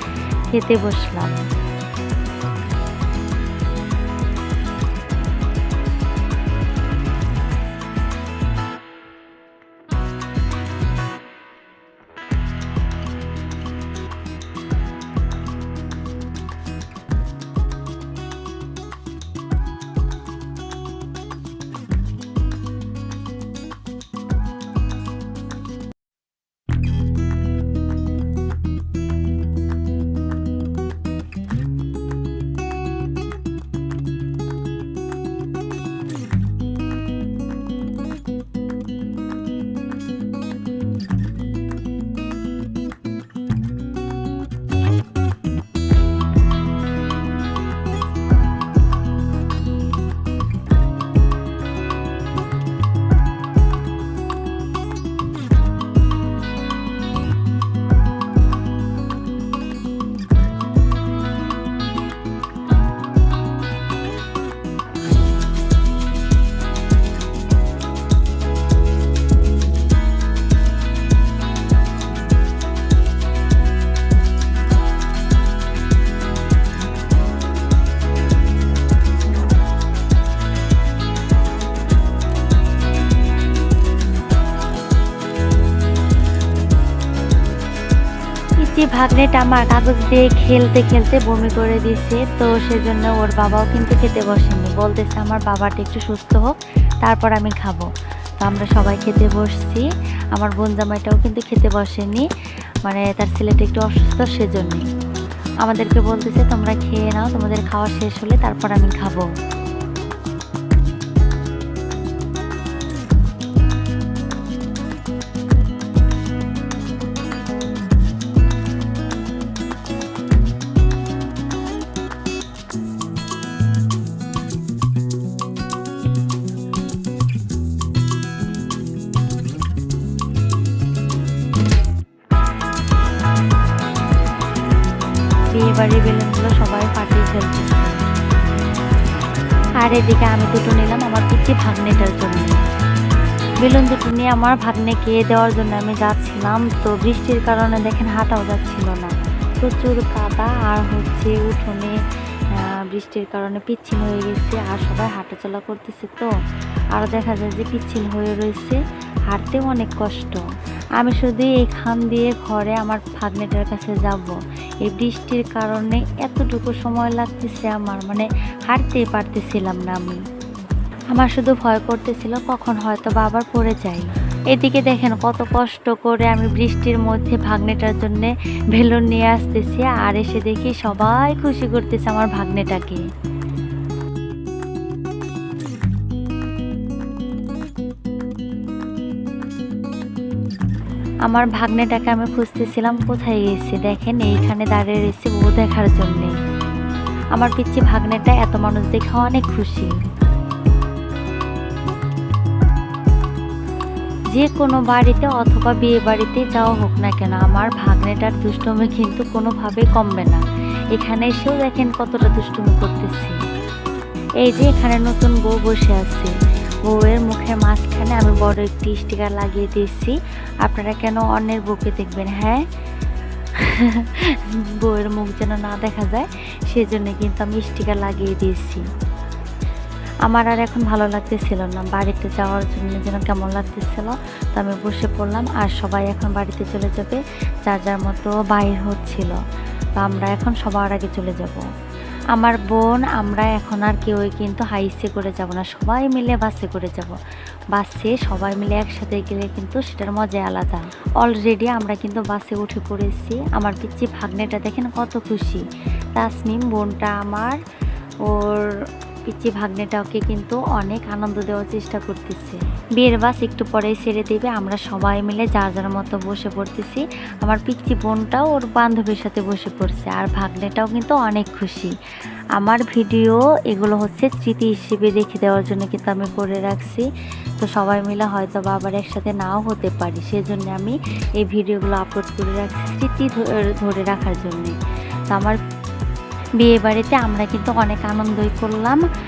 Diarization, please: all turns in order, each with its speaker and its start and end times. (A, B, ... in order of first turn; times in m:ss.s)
0:00.5-0:01.4 A
1:28.6-1:37.9 A
1:38.4-1:42.3 A
1:42.8-1:44.9 A
1:45.6-1:49.3 A
2:15.6-2:17.9 A
2:19.8-2:22.6 A
2:23.6-2:32.0 A
2:32.5-2:36.3 A
2:36.9-2:40.4 A
2:41.0-2:50.2 A
2:51.1-3:03.0 A
3:11.3-3:16.4 A
3:17.3-3:19.9 A
3:24.3-3:33.4 A
3:34.4-3:36.3 A
3:36.9-3:42.6 A
3:43.6-3:48.8 A
3:50.3-3:59.4 A
4:00.0-4:01.6 A
4:02.3-4:07.2 A
4:07.7-4:15.6 A
4:16.2-4:17.6 A
4:18.3-4:18.7 A
4:19.3-4:31.9 A
4:32.6-4:37.1 A
4:37.6-4:44.8 A
4:45.3-4:45.6 A
4:46.6-4:49.0 A